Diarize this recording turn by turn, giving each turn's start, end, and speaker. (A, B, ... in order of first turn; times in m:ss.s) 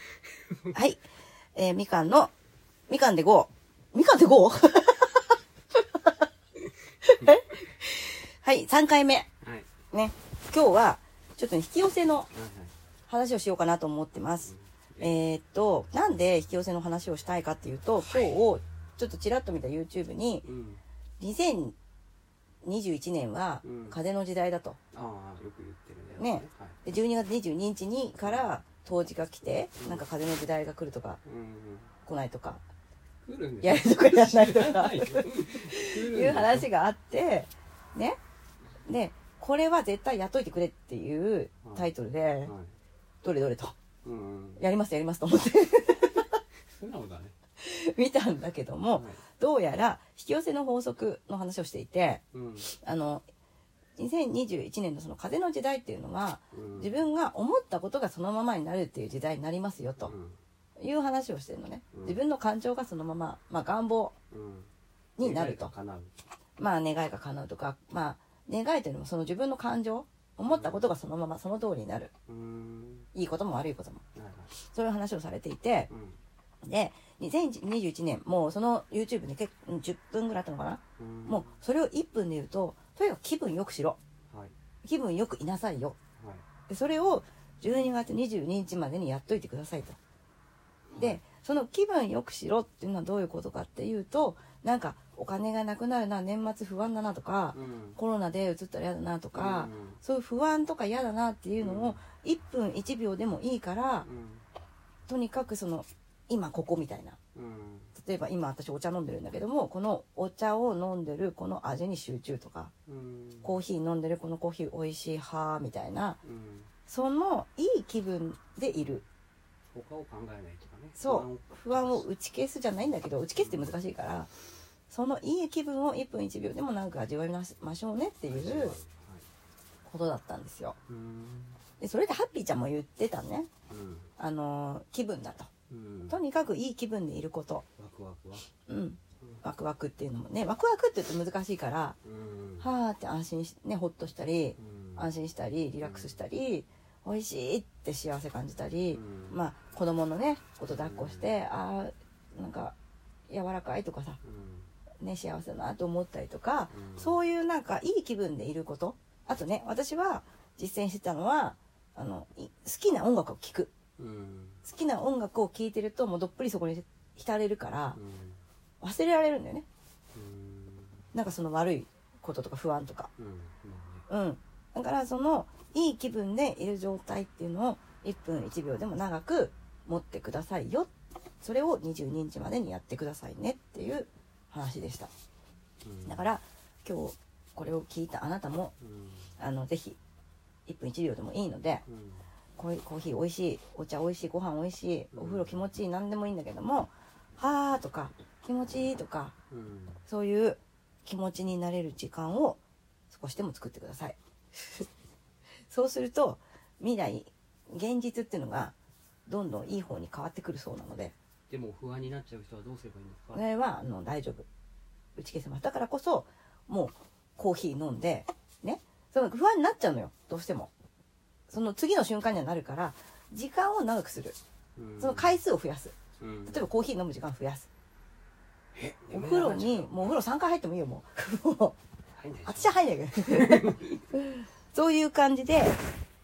0:00.5-0:00.7 A
0:00.7-0:01.0 B
0:01.6-0:02.3 B
0:02.9-0:05.3 B
0:07.0-0:09.3 B
0:09.4-0:09.7 A
0:09.9-0:12.3 B
0:12.3-0:12.7 A
0:13.1-0:20.4 B
0:14.4-0:15.1 A
0:20.4-0:20.8 A
0:21.2-0:21.8 B
0:22.6-0:24.8 B
0:23.6-0:24.0 A
0:24.9-0:26.8 A
0:26.2-0:31.2 B
0:28.2-0:28.5 A
0:29.8-0:30.1 A
0:31.2-0:31.9 A
0:32.0-0:32.6 B
0:33.2-0:36.7 A
0:33.6-0:38.2 B
0:38.9-0:42.5 B
0:41.6-0:41.9 A
0:42.4-0:42.8 A
0:43.2-0:43.8 B
0:44.0-0:44.6 A
0:44.6-0:46.4 B
0:46.7-0:47.4 A
0:47.6-0:53.2 B
0:48.9-0:49.2 A
0:52.3-0:52.7 A
0:54.0-1:00.1 B
0:56.5-0:57.0 A
1:00.0-1:00.4 A
1:00.8-1:04.2 B
1:01.9-1:02.2 A
1:04.3-1:06.1 A
1:05.2-1:05.7 B
1:06.6-1:12.1 B
1:10.5-1:10.9 A
1:12.3-1:13.1 A
1:13.1-1:14.0 B
1:14.1-1:14.5 A
1:14.6-1:15.9 B
1:15.9-1:16.2 A
1:16.6-1:24.0 B
1:21.0-1:21.6 A
1:24.3-1:24.6 A
1:24.8-1:26.0 B
1:26.2-1:26.4 A
1:26.7-1:30.0 B
1:30.9-1:31.2 A
1:31.0-1:44.1 B
1:37.5-1:38.0 A
1:39.3-1:40.0 A
1:41.6-1:42.0 A
1:44.0-1:44.4 A
1:45.1-1:47.2 B
1:47.3-1:47.9 A
1:48.0-1:52.7 B
1:52.9-1:53.6 A
1:53.4-1:56.2 B
1:56.2-1:56.7 A
1:56.9-1:59.0 B
1:59.7-2:02.0 A
2:01.0-2:04.3 B
2:03.4-2:03.7 A
2:04.9-2:08.8 B
2:08.3-2:09.3 A
2:09.8-2:10.8 B
2:10.9-2:11.6 A
2:11.8-2:13.5 B
2:13.7-2:14.1 A
2:14.2-2:15.5 B
2:15.7-2:16.2 A
2:16.1-2:17.7 B
2:17.8-2:18.5 A
2:18.7-2:22.0 B
2:22.0-2:22.7 A
2:22.6-2:32.8 B
2:24.6-2:25.1 A
2:25.8-2:26.2 A
2:28.9-2:29.4 A
2:30.7-2:31.4 A
2:33.3-2:34.2 B
2:34.2-2:34.7 A
2:35.0-2:43.7 B
2:36.7-2:37.2 A
2:44.0-2:44.6 A
2:44.6-2:48.0 B
2:47.9-2:48.4 A
2:48.8-2:49.7 B
2:50.1-2:51.1 A
2:51.1-2:53.1 B
2:53.2-2:54.1 A
2:54.1-3:00.9 B
3:01.4-3:05.1 B
3:05.8-3:06.3 A
3:06.1-3:08.7 B
3:08.8-3:09.3 A
3:09.4-3:10.0 B
3:10.7-3:11.8 B
3:11.9-3:12.3 A
3:12.6-3:19.4 B
3:15.1-3:15.7 A
3:19.5-3:20.0 A
3:20.1-3:24.2 B
3:25.7-3:28.8 B
3:29.3-3:31.2 B
3:31.5-3:33.4 A
3:33.3-3:34.5 B
3:35.2-3:40.7 B
3:41.5-3:44.4 B
3:44.8-3:45.4 A
3:45.0-3:46.0 B
3:46.2-3:46.7 A
3:46.5-3:47.7 B
3:48.8-3:50.1 A
3:49.1-3:51.8 B
3:52.1-3:54.0 A
3:52.5-3:55.8 B